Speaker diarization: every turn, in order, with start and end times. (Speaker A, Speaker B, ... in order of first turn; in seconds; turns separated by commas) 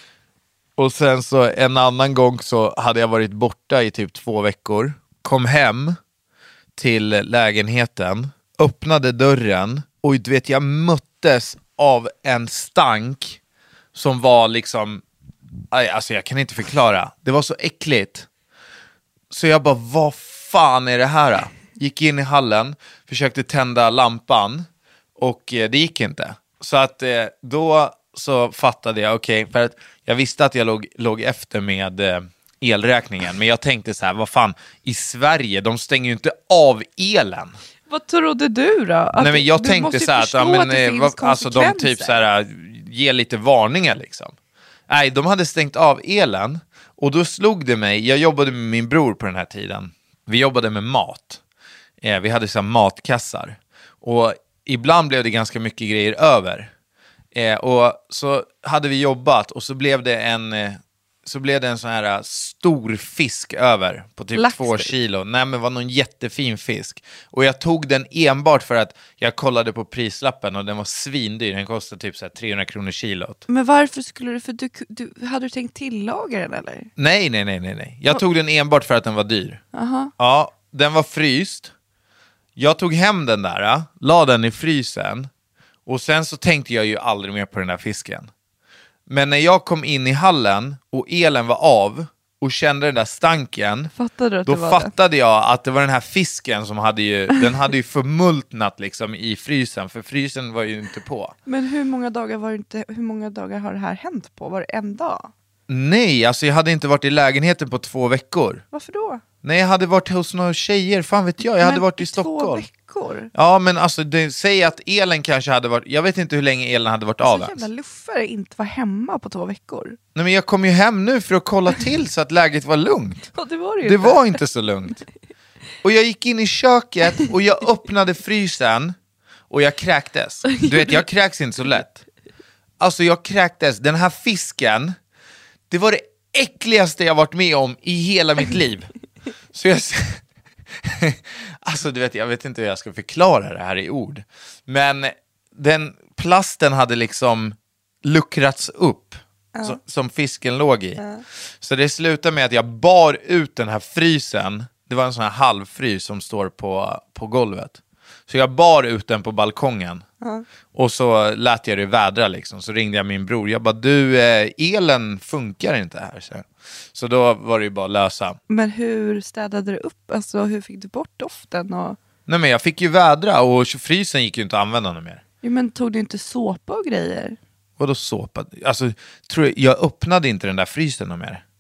Speaker A: 0.8-6.0, Speaker A: 6.8-13.4, Speaker A: 13.9-15.0, Speaker A: 15.7-18.3, Speaker A: 19.3-37.6, Speaker B: 37.9-42.2, Speaker A: 39.2-44.4, Speaker A: 44.9-51.4, Speaker A: 52.0-56.7, Speaker A: 57.3-73.4, Speaker B: 64.3-64.9, Speaker B: 73.5-76.9, Speaker A: 77.0-79.6, Speaker B: 79.7-80.1, Speaker A: 80.2-81.7, Speaker A: 82.6-85.3, Speaker A: 85.9-88.3, Speaker A: 89.1-93.9, Speaker B: 93.9-94.9, Speaker A: 94.5-101.4, Speaker B: 101.5-105.3, Speaker A: 105.7-108.6, Speaker B: 108.7-109.2, Speaker A: 109.4-112.7, Speaker B: 111.6-113.3, Speaker A: 113.3-117.7, Speaker B: 117.2-120.0, Speaker A: 120.2-125.0, Speaker B: 123.4-124.4, Speaker A: 125.8-128.9, Speaker A: 129.5-132.0, Speaker B: 130.5-131.0, Speaker A: 132.8-135.0, Speaker A: 135.7-138.9, Speaker A: 139.5-140.2, Speaker A: 140.8-151.0, Speaker B: 149.5-149.8, Speaker B: 151.0-151.2, Speaker A: 151.6-160.0, Speaker A: 160.7-168.4, Speaker B: 168.5-172.0, Speaker A: 172.3-175.2, Speaker B: 175.4-177.4, Speaker A: 177.8-181.4